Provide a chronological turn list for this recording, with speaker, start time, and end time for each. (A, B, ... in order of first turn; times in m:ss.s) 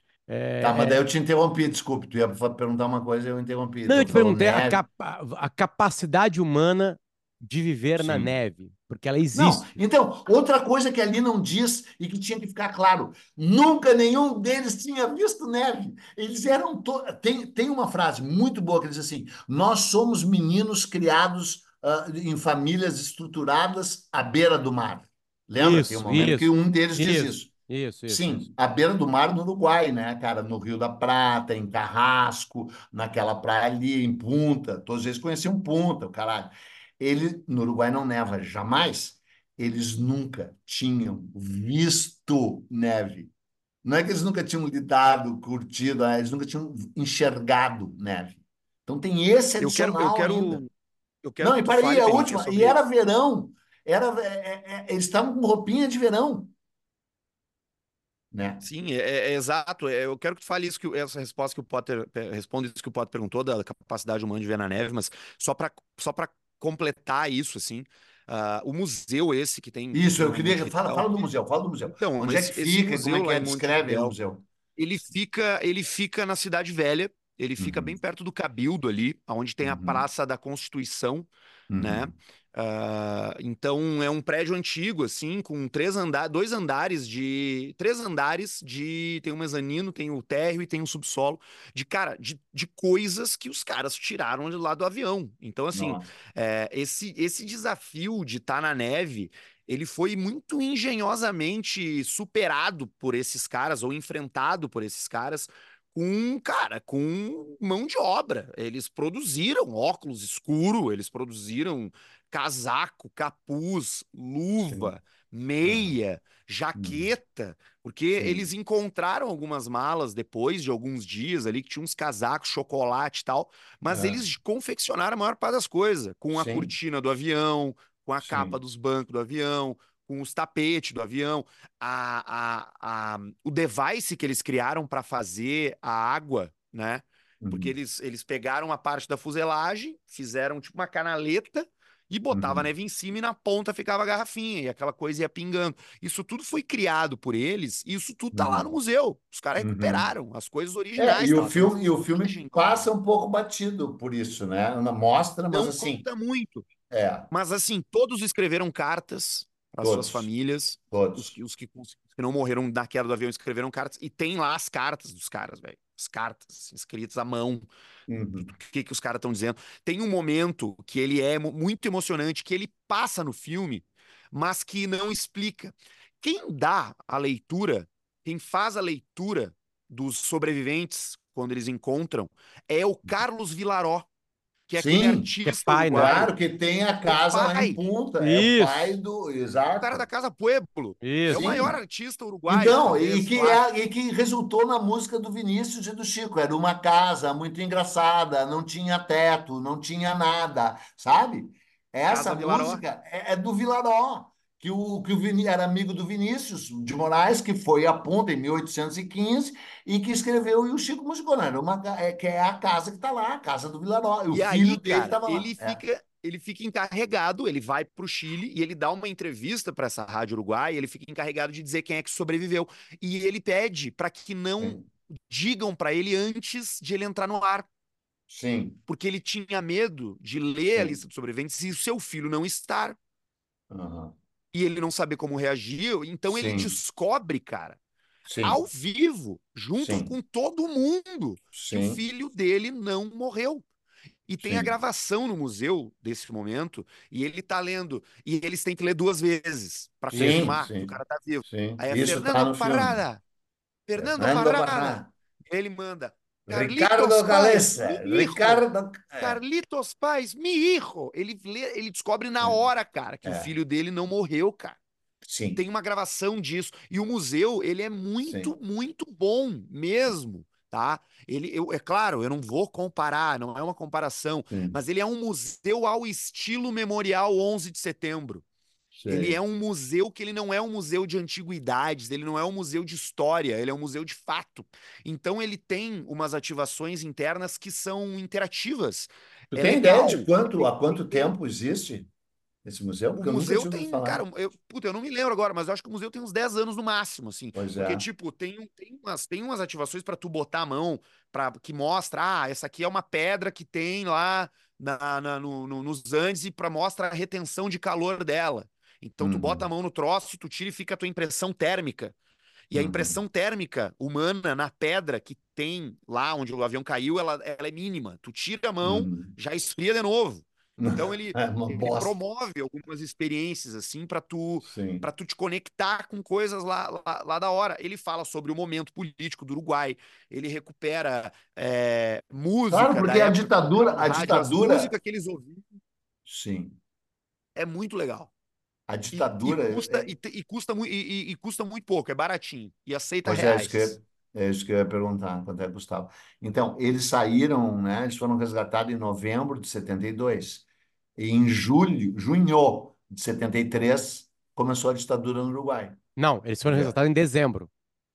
0:00.3-0:01.0 A
0:00.6-0:04.8 B
0:03.9-0:09.6 A
0:08.0-0:08.3 B
0:09.3-0:27.5 B
0:25.6-0:28.5 A
0:28.1-0:43.3 B
0:43.8-0:50.6 B
0:49.6-0:50.7 C
0:51.2-0:52.8 C
0:51.4-0:56.5 B
0:58.3-0:58.6 B
0:58.6-1:11.1 C
1:09.9-1:14.5 B
1:12.0-1:14.2 C
1:14.8-2:32.9 C
1:17.6-1:18.0 B
1:19.6-1:20.1 B
1:21.7-1:22.2 B
1:35.7-1:36.1 B
1:54.7-1:55.0 B
1:55.6-1:56.0 B
1:56.8-1:57.1 B
1:58.2-1:58.5 B
2:03.9-2:04.2 B
2:06.4-2:06.7 B
2:08.2-2:08.6 B
2:17.4-2:17.7 B
2:22.3-2:22.7 B
2:28.3-2:28.7 B
2:29.6-2:30.1 B
2:31.0-2:36.0 B
2:35.5-2:36.7 C
2:36.9-2:37.3 B
2:37.3-2:47.7 C
2:39.8-2:40.3 B
2:40.9-2:41.4 B
2:48.1-2:48.5 B
2:48.4-3:04.1 C
3:04.7-3:06.3 C
3:04.8-3:05.3 B
3:05.4-3:06.2 A
3:05.9-3:10.1 B
3:07.0-3:07.8 C
3:08.2-3:09.0 A
3:09.8-3:13.6 C
3:11.0-3:11.7 A
3:11.3-3:11.8 B
3:12.5-3:35.8 B
3:22.1-3:22.8 C
3:34.3-3:47.7 C
3:44.6-3:44.9 B
3:48.3-3:48.8 B
3:48.9-3:53.0 C
3:50.8-3:51.0 B
3:53.7-3:54.2 B
3:54.5-3:57.8 C
3:56.3-3:56.8 B
3:58.3-3:58.6 B
3:58.4-4:03.6 C
3:59.8-4:00.2 B
4:01.5-4:02.0 B
4:04.3-4:13.2 C
4:04.4-4:04.8 B
4:10.1-4:10.9 B
4:11.5-4:13.0 B
4:13.9-4:24.8 C
4:14.0-4:15.1 B
4:16.5-4:19.4 B
4:22.4-4:22.7 B
4:23.2-4:23.5 B
4:25.2-4:25.6 B
4:25.6-4:38.4 C
4:28.2-4:28.5 B
4:34.5-4:34.8 B
4:39.0-4:39.4 B
4:39.1-4:51.3 C
4:49.5-4:52.1 B
4:52.6-4:54.2 B
4:53.2-5:12.2 C
4:57.6-4:58.1 B
5:09.2-5:09.7 B
5:12.7-5:35.6 C
5:12.7-5:13.2 B
5:18.8-5:19.3 B
5:20.8-5:22.2 B
5:24.6-5:25.1 B
5:32.7-5:35.0 B
5:36.3-5:36.8 B
5:37.6-5:38.3 C
5:38.9-5:40.1 B
5:39.1-5:44.0 C
5:43.2-5:50.7 B
5:51.2-5:56.0 B
5:56.2-5:57.7 A
5:56.7-5:57.0 B